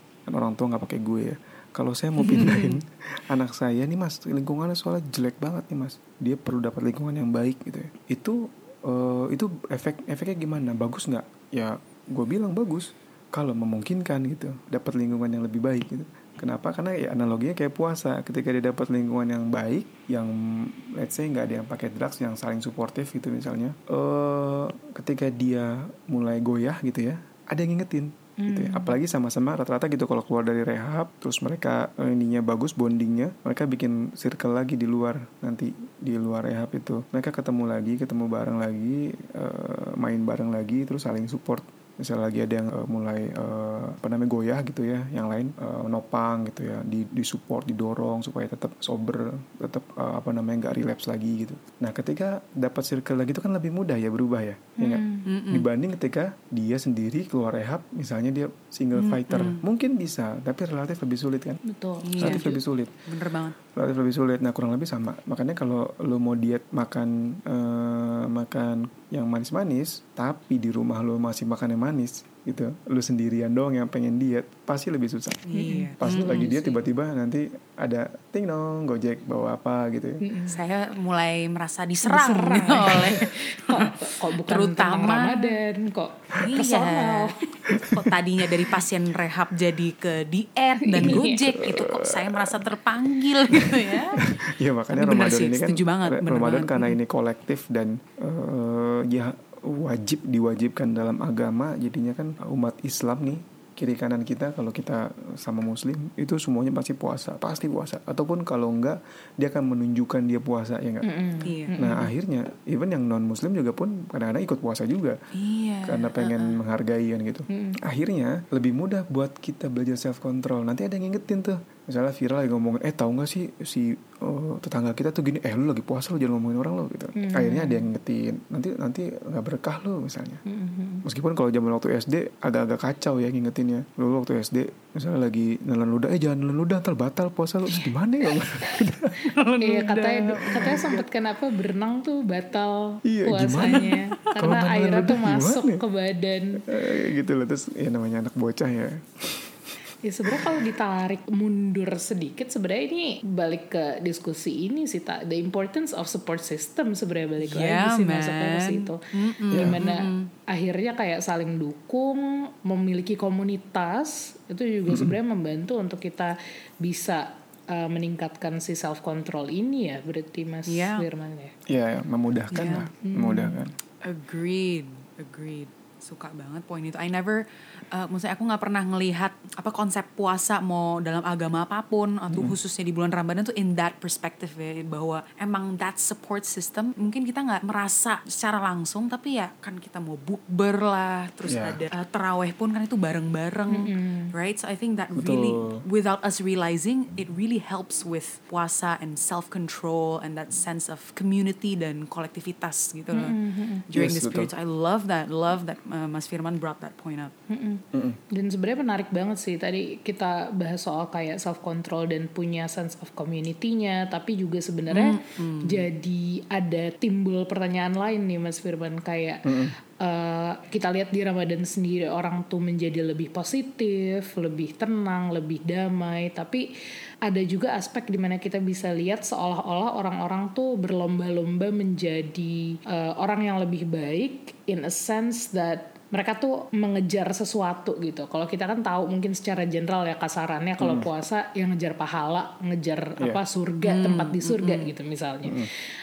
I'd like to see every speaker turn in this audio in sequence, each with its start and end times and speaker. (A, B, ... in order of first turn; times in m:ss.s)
0:00.3-1:01.6 A
0:02.2-0:02.8 B
0:28.4-0:29.0 C
0:54.8-0:55.3 C
0:55.3-0:55.7 B
0:59.0-0:59.6 B
1:01.7-1:02.5 C
1:02.0-1:03.6 B
1:02.2-1:03.0 A
1:03.7-1:15.4 A
1:15.5-1:16.8 B
1:15.6-1:15.9 C
1:16.0-1:20.2 A
1:20.2-1:20.6 C
1:20.5-1:25.6 B
1:22.0-1:27.4 C
1:26.4-1:34.4 B
1:27.7-1:28.2 A
1:30.9-1:31.4 C
1:31.0-1:32.6 A
1:33.5-1:51.1 A
1:34.9-1:37.0 B
1:51.0-1:52.1 C
1:51.4-1:51.7 B
1:51.8-1:55.2 A
1:55.4-1:56.6 B
1:55.8-2:10.4 A
1:57.5-1:57.8 C
2:07.2-2:07.9 C
2:10.5-2:11.0 C
2:11.0-2:19.4 A
2:19.3-2:21.0 B
2:19.6-2:26.6 C
2:23.0-2:25.8 A
2:23.6-2:24.5 B
2:26.7-2:29.8 A
2:30.0-2:51.5 C
2:30.3-2:30.6 A
2:37.4-2:40.3 B
2:39.5-2:39.8 A
2:44.9-2:45.2 A
2:50.7-2:51.0 B
2:51.7-2:53.7 A
2:52.5-2:52.9 B
2:53.0-2:53.6 C
2:54.0-3:23.4 B
3:02.3-3:02.6 A
3:11.5-3:11.8 A
3:13.7-3:14.3 C
3:15.2-3:15.8 A
3:23.1-3:23.8 C
3:23.9-3:27.3 B
3:23.9-3:24.5 A
3:27.5-3:39.5 C
3:27.9-3:28.2 A
3:34.9-3:35.8 B
3:39.5-3:39.8 A
3:40.0-3:46.7 C
3:47.2-4:05.7 C
4:00.8-4:01.1 A
4:03.8-4:04.9 B
4:05.4-4:05.7 A